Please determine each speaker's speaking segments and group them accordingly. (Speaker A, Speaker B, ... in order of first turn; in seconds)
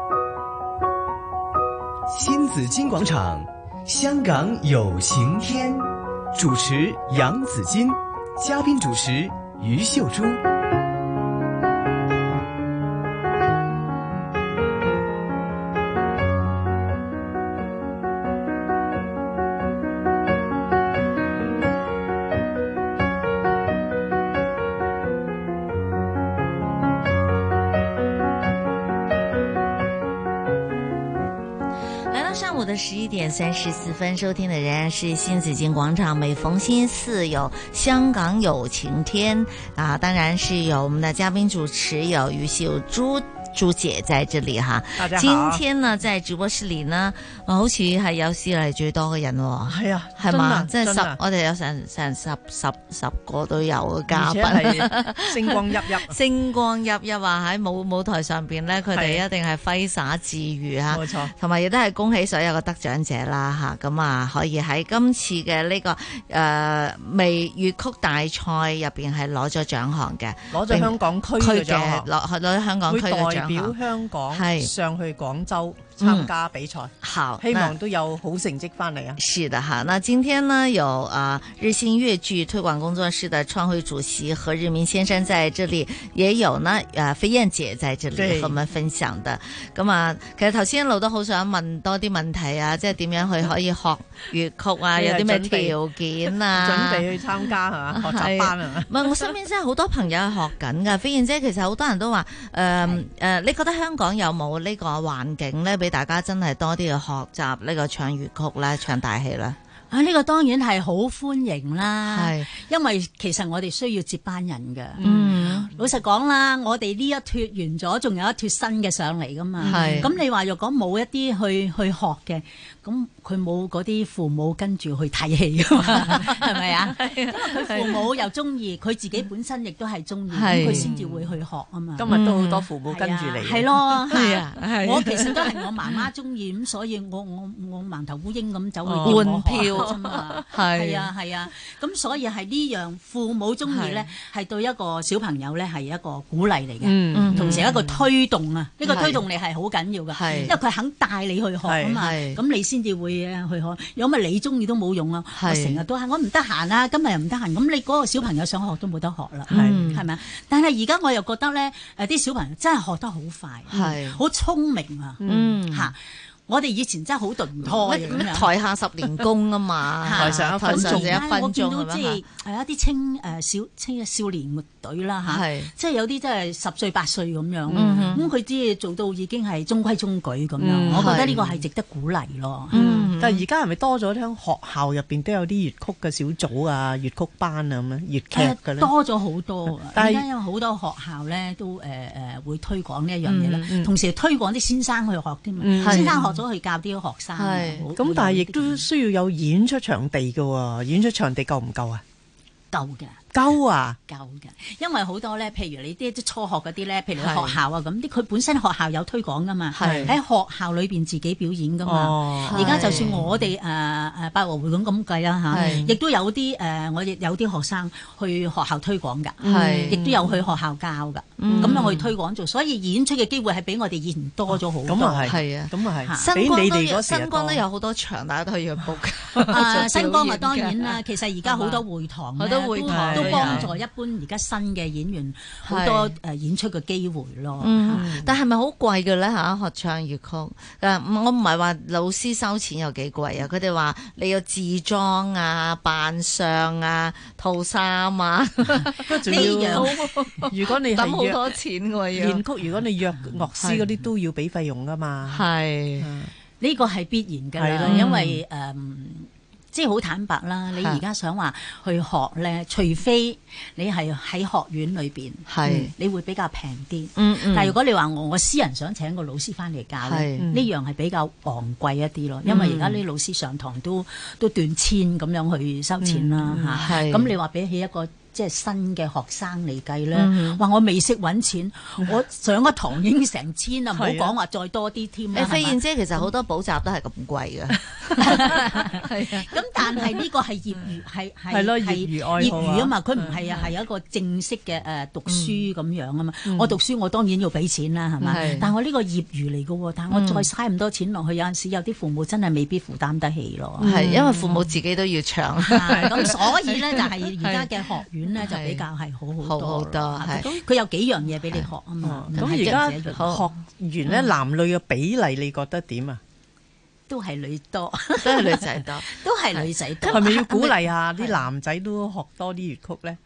Speaker A: 2.1-10.4
Speaker B: 32.1-73.8, 74.3-74.7, 76.0-76.3, 77.0-77.7, 79.2-97.0, 97.9-109.6, 112.1-112.5, 115.0-115.7, 119.6-120.1, 125.9-128.1, 130.3-130.9, 132.1-132.7, 134.1-136.0, 139.0-141.1, 143.6-144.1, 147.1-147.7, 148.9-149.2, 150.1-150.6, 151.9-152.4, 155.3-155.8, 159.5-160.0, 163.7-164.2, 165.2-165.9, 167.6-172.2, 175.2-175.7, 177.7-178.3, 180.9-181.4, 182.7-183.4, 195.8-196.1, 197.4-197.8, 207.2-207.6, 209.7-210.1, 212.5-213.2, 215.5-215.8, 219.4-220.0, 221.4-222.1, 225.2-231.8, 232.4-233.7, 235.7-236.1, 237.6-252.4, 253.6-253.8, 255.3-256.1, 257.9-258.4, 265.5-265.9, 267.1-267.7, 270.0-270.5, 272.4-273.0, 276.7-277.3, 280.1-280.6, 285.3-290.2, 295.2-295.6, 298.2-298.7, 300.1-300.5, 303.8-307.8, 308.4-308.8, 309.4-310.5, 312.3-313.4, 318.2-320.8
Speaker C: 45.0-45.6, 49.7-51.2, 54.1-56.1, 58.9-59.2, 60.9-61.3, 70.5-72.1, 72.9-79.2, 88.1-88.6, 94.9-95.7, 96.5-98.9, 115.0-115.7, 119.6-120.1, 130.5-131.3, 131.9-133.7, 138.8-139.5, 146.8-148.0, 151.6-151.9, 159.5-160.0, 165.2-165.6, 170.1-171.3, 177.7-178.2, 180.6-181.6, 182.7-188.9, 189.9-190.2, 193.5-193.9, 195.6-196.4, 198.0-202.0, 203.3-204.0, 209.8-210.1, 211.8-213.1, 215.5-216.0, 219.4-220.4, 221.5-222.0, 224.8-227.6, 232.9-233.7, 237.9-238.3, 249.1-249.9, 250.5-251.5, 252.1-255.4, 256.0-256.3, 257.6-258.4, 270.4-270.7, 276.0-276.8, 283.9-284.3, 291.5-293.4, 296.5-296.8, 298.2-298.5, 303.8-304.6, 312.0-316.2, 320.1-323.2
Speaker D: 109.9-132.1, 132.9-166.0, 166.5-168.5, 170.0-182.8, 188.3-198.8, 202.7-203.2, 204.1-225.4, 229.4-238.2, 249.2-250.1, 256.6-285.8, 288.1-304.0, 305.6-313.4, 317.1-320.5